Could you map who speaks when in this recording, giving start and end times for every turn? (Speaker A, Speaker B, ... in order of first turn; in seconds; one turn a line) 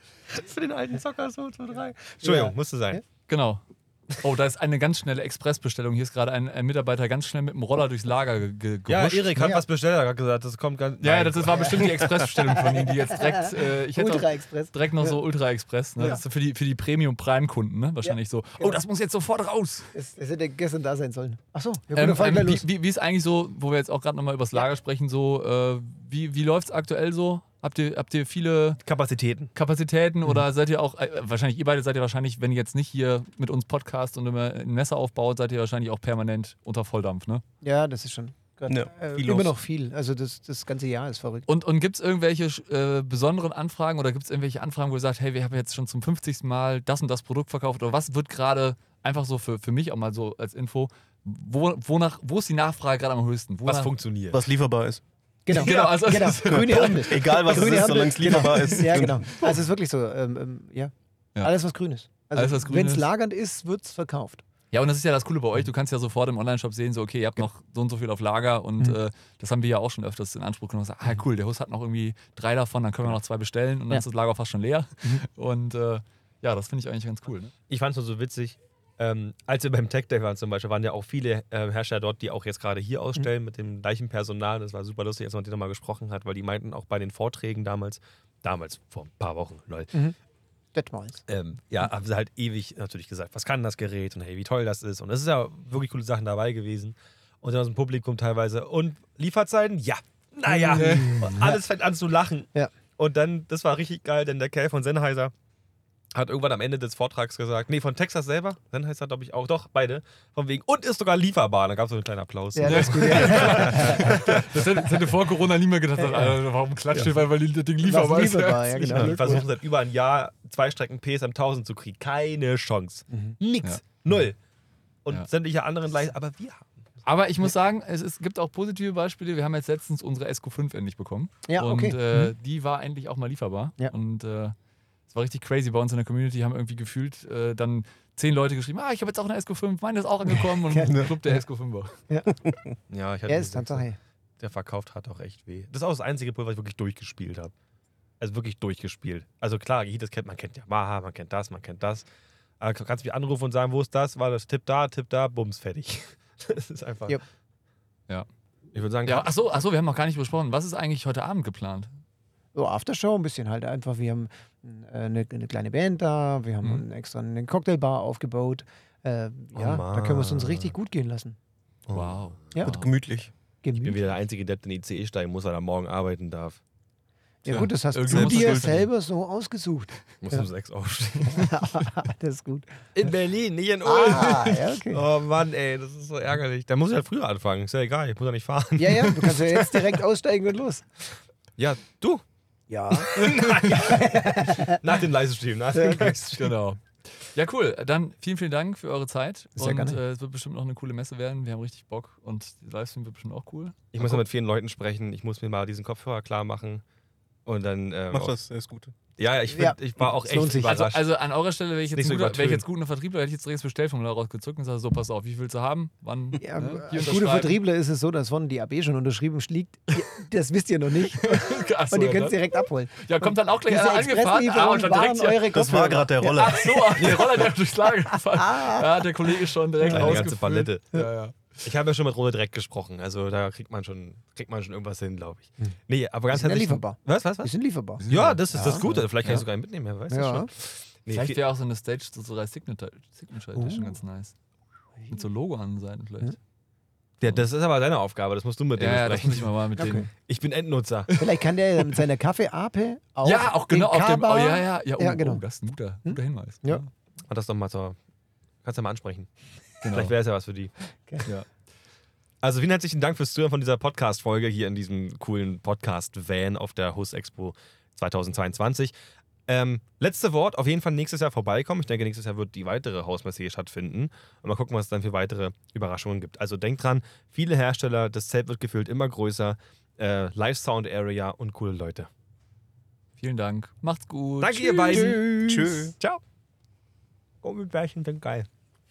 Speaker A: 0.3-3.0
Speaker B: 2.2-3.0
Speaker C: 3.3-3.6
Speaker C: 4.2-9.3
Speaker A: 8.9-11.8
Speaker B: 9.4-9.6
Speaker C: 11.0-19.9
Speaker B: 11.5-15.2
Speaker B: 18.0-18.8
Speaker B: 19.9-22.6
Speaker C: 21.9-28.8
Speaker A: 28.8-29.5
Speaker C: 29.6-37.4
Speaker B: 37.6-41.5
Speaker D: 38.7-39.6
Speaker C: 41.5-54.0
Speaker A: 53.6-54.4
Speaker D: 54.3-55.0
Speaker B: 55.5-64.4
Speaker C: 55.5-58.8
Speaker D: 56.5-59.3
Speaker C: 62.4-63.1
Speaker C: 64.7-77.5
Speaker A: 77.7-89.9
Speaker B: 90.7-91.2
Speaker A: 91.3-105.3
Speaker B: 100.5-101.6
Speaker C: 100.8-101.4
Speaker A: 106.2-114.2
Speaker B: 112.5-114.6
Speaker C: 112.6-119.2
Speaker B: 116.0-116.4
Speaker B: 117.8-119.5
Speaker A: 118.8-124.4
Speaker D: 118.9-119.4
Speaker B: 123.1-123.4
Speaker A: 125.0-126.7
Speaker C: 127.1-134.6
Speaker B: 131.5-132.3
Speaker C: 135.1-141.9
Speaker B: 140.6-141.4
Speaker D: 140.9-141.1
Speaker D: 142.4-142.7
Speaker A: 142.9-143.9
Speaker B: 143.3-144.0
Speaker A: 144.4-147.5
Speaker A: 148.2-152.1
Speaker A: 152.6-157.2
Speaker A: 158.7-159.7
Speaker C: 159.1-161.9
Speaker B: 162.6-171.4
Speaker A: 169.5-170.8
Speaker A: 171.9-172.4
Speaker C: 171.9-172.9
Speaker B: 172.5-172.8
Speaker D: 172.6-173.3
Speaker B: 173.6-174.0
Speaker A: 173.8-176.6
Speaker B: 177.4-180.5
Speaker C: 177.5-178.9
Speaker D: 178.1-178.8
Speaker A: 180.2-181.5
Speaker B: 181.3-182.7
Speaker A: 182.9-190.0
Speaker B: 183.8-185.0
Speaker B: 188.8-190.8
Speaker A: 191.6-192.2
Speaker B: 192.7-194.8
Speaker A: 192.9-196.5
Speaker B: 195.7-196.4
Speaker C: 196.4-204.2
Speaker B: 199.6-200.0
Speaker A: 203.9-206.8
Speaker A: 207.5-208.3
Speaker D: 208.1-208.9
Speaker A: 209.2-211.1
Speaker B: 209.5-210.8
Speaker C: 210.6-217.6
Speaker A: 211.9-212.7
Speaker B: 216.4-227.2
Speaker C: 221.0-225.6
Speaker D: 225.5-227.5
Speaker C: 226.2-231.3
Speaker B: 228.3-229.1
Speaker B: 229.8-230.3
Speaker A: 229.9-230.9
Speaker A: 231.6-237.5
Speaker B: 236.3-239.4
Speaker C: 238.0-239.4
Speaker A: 238.1-241.4
Speaker B: 240.1-240.5
Speaker C: 241.1-244.3
Speaker B: 243.5-244.0
Speaker C: 245.1-246.4
Speaker A: 247.2-249.5
Speaker C: 248.8-250.1
Speaker B: 249.8-250.1
Speaker A: 250.3-251.1
Speaker B: 251.2-255.4
Speaker C: 253.2-256.9
Speaker B: 256.1-256.8
Speaker A: 257.3-258.0
Speaker A: 258.6-259.3
Speaker C: 259.8-260.1
Speaker A: 259.9-260.7
Speaker A: 262.4-268.9
Speaker A: 269.5-282.1
Speaker C: 283.2-285.2
Speaker A: 284.4-286.2
Speaker B: 284.9-285.8
Speaker D: 285.1-285.9
Speaker A: 287.4-288.5